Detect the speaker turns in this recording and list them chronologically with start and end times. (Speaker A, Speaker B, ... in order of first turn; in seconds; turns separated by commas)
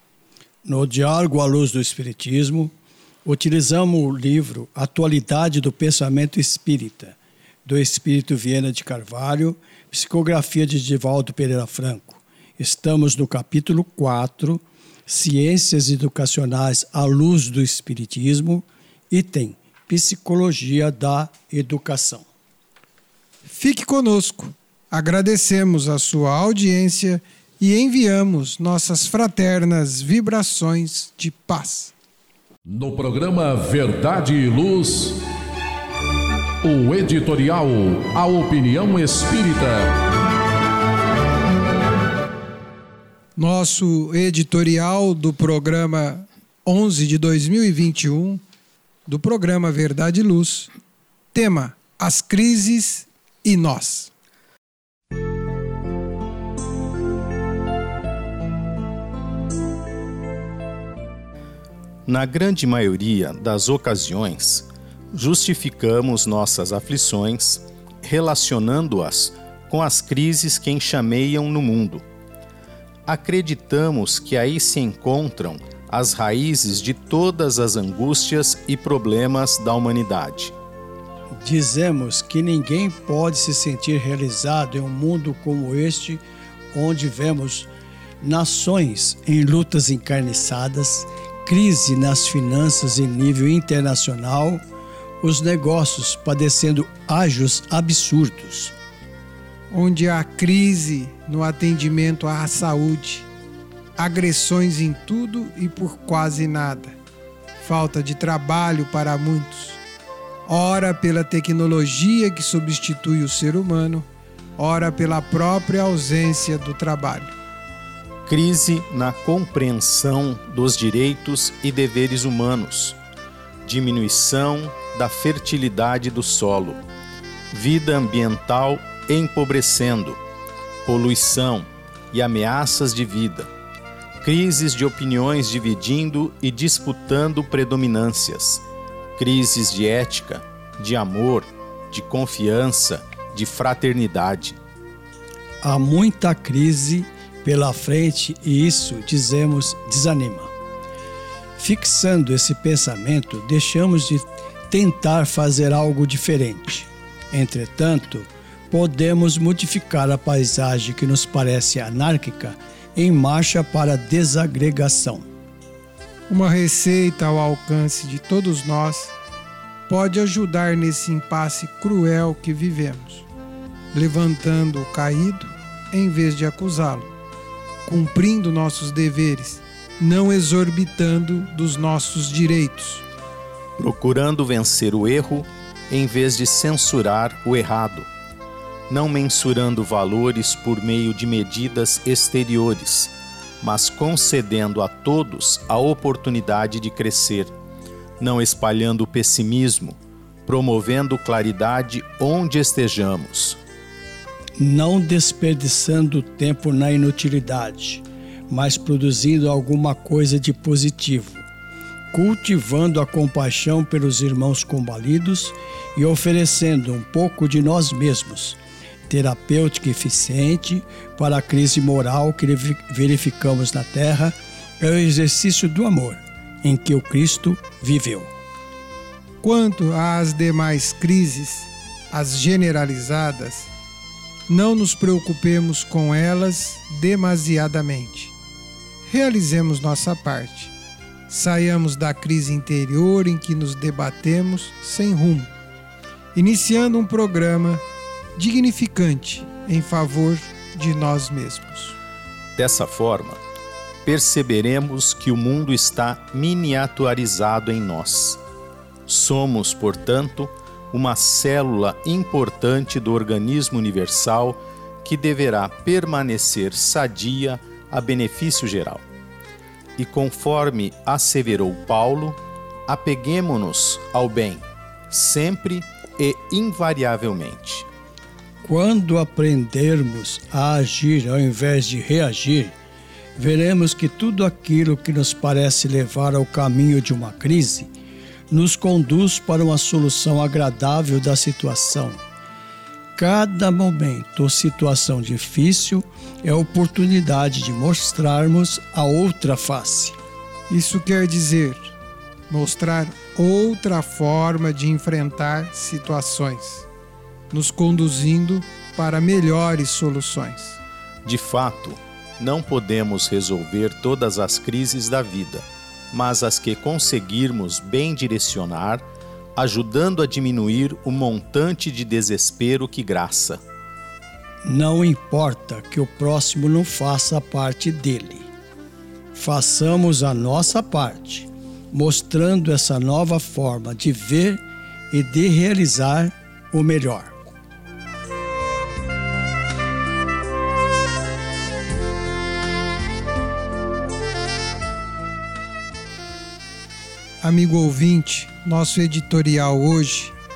Speaker A: 0.6-2.7, Speaker A: 3.2-22.3, Speaker B: 23.5-31.9, Speaker C: 32.7-35.2, Speaker C: 36.6-40.0, Speaker B: 43.4-48.4, Speaker B: 49.1-50.7, Speaker B: 51.3-54.1, Speaker D: 62.1-72.0, Speaker D: 73.1-80.5, Speaker A: 81.4-86.2, Speaker A: 86.7-87.7, Speaker A: 88.2-94.6, Speaker A: 95.2-98.7, Speaker B: 99.7-103.3, Speaker B: 104.0-107.0, Speaker B: 107.6-109.8, Speaker B: 110.5-117.3, Speaker D: 118.3-123.0, Speaker D: 123.7-126.8, Speaker D: 127.5-130.2, Speaker D: 130.8-133.5, Speaker D: 134.2-138.6, Speaker D: 139.2-144.6, Speaker A: 145.6-150.5, Speaker A: 151.6-165.3, Speaker B: 166.3-169.2, Speaker B: 169.9-173.3, Speaker B: 173.9-177.1, Speaker B: 177.9-183.1, Speaker D: 183.8-188.1, Speaker D: 188.9-197.5, Speaker D: 198.2-203.6, Speaker A: 204.6-211.4, Speaker A: 212.1-228.3, Speaker B: 229.4-233.7, Speaker B: 234.5-238.3, Speaker B: 239.1-240.7, Speaker B: 241.3-245.5, Speaker B: 246.3-247.8, Speaker B: 248.4-252.0, Speaker D: 252.6-253.4, Speaker D: 254.1-258.4, Speaker D: 259.1-269.0, Speaker D: 270.0-277.9, Speaker A: 278.6-282.8, Speaker A: 283.4-287.9, Speaker A: 288.5-292.2, Speaker A: 293.2-300.2, Speaker B: 300.7-301.9, Speaker B: 302.5-306.9, Speaker B: 307.5-310.8, Speaker D: 311.2-323.6, Speaker A: 324.6-328.5, Speaker A: 329.3-337.4, Speaker B: 347.4-350.4